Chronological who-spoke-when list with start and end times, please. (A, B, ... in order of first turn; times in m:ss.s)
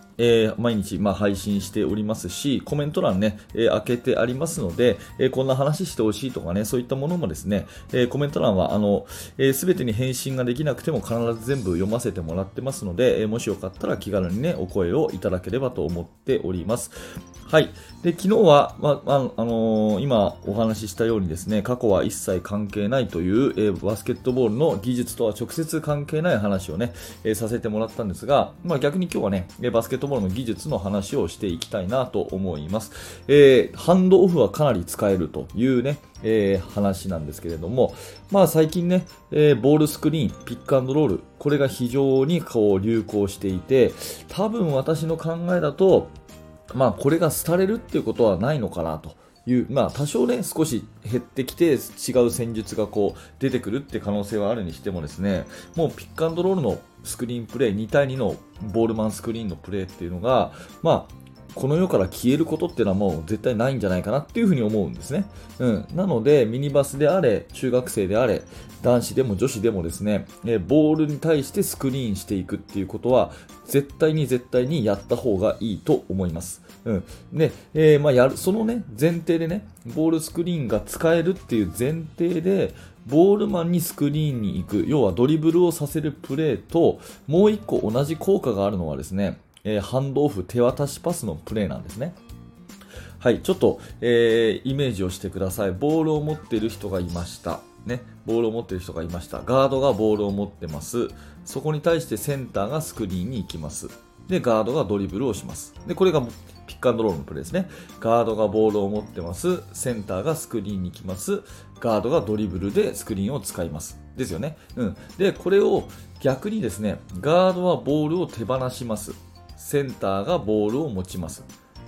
0:00.2-0:46.1 A
0:46.7-1:32.2 A
1:33.2-2:01.5 A